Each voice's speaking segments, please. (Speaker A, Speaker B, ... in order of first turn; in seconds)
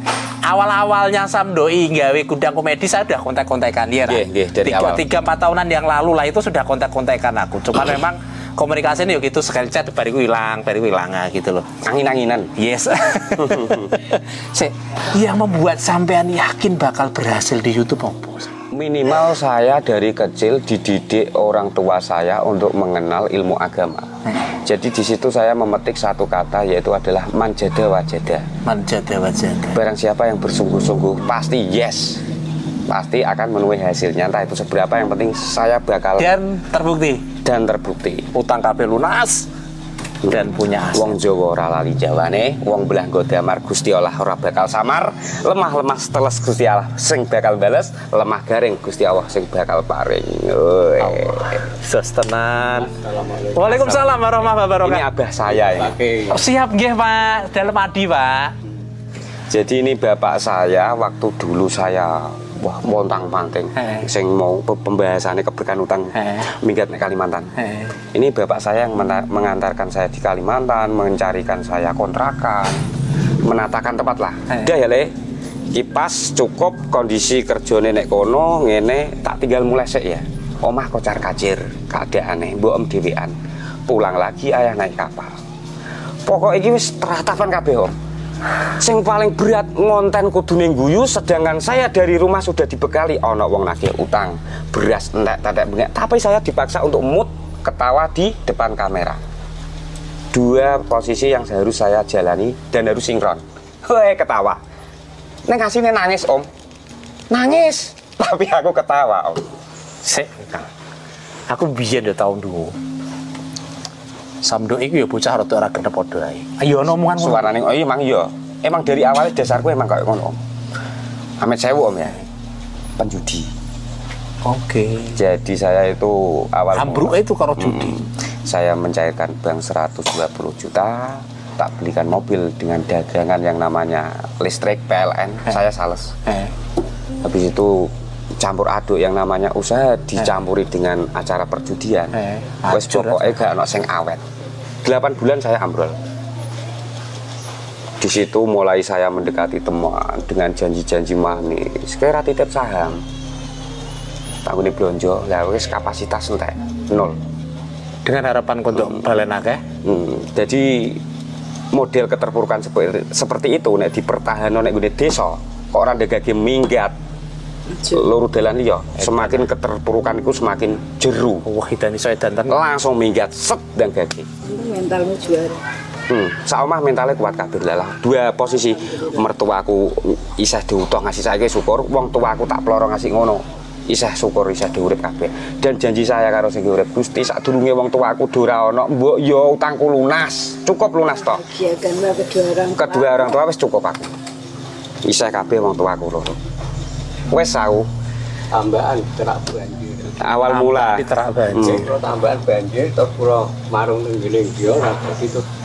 Speaker A: 0.5-11.7, 12.6-18.5, 28.6-29.8, 36.2-37.2, 38.3-39.5, 40.3-41.1, 51.0-52.9, 53.5-55.0, 56.3-58.5, 63.8-64.0, 66.2-66.5, 67.6-67.9, 110.0-110.7, 111.5-112.7, 114.4-117.5, 124.4-125.2, 126.8-128.0, 136.2-136.5, 142.2-143.4, 158.0-159.6, 169.0-169.4, 171.4-172.6, 200.5-201.9
Speaker B: 4.0-5.0, 11.8-12.5, 13.4-13.9, 18.7-24.1, 24.6-28.5, 29.7-32.2, 32.9-36.3, 37.4-38.3, 40.2-51.6, 54.8-55.9, 59.5-67.5, 68.1-72.8, 73.4-75.1, 75.7-83.3, 83.9-85.4, 86.2-87.9, 88.8-99.2, 100.3-104.6, 105.5-106.5, 107.3-109.4, 117.2-120.4, 121.4-122.2, 123.0-123.5, 125.1-136.1, 137.2-144.2, 144.8-145.9, 148.0-153.0, 154.4-157.2, 158.8-159.0, 159.8-161.0, 161.7-166.9, 167.9-171.4, 172.5-174.3, 176.1-191.4, 192.7-194.1, 195.1-196.4, 197.3-197.9, 200.2-201.8
Speaker C: 52.7-54.1, 55.5-56.4, 198.5-200.2, 201.6-205.4
Speaker D: 167.7-168.0, 174.5-175.6, 178.8-179.2, 191.2-193.4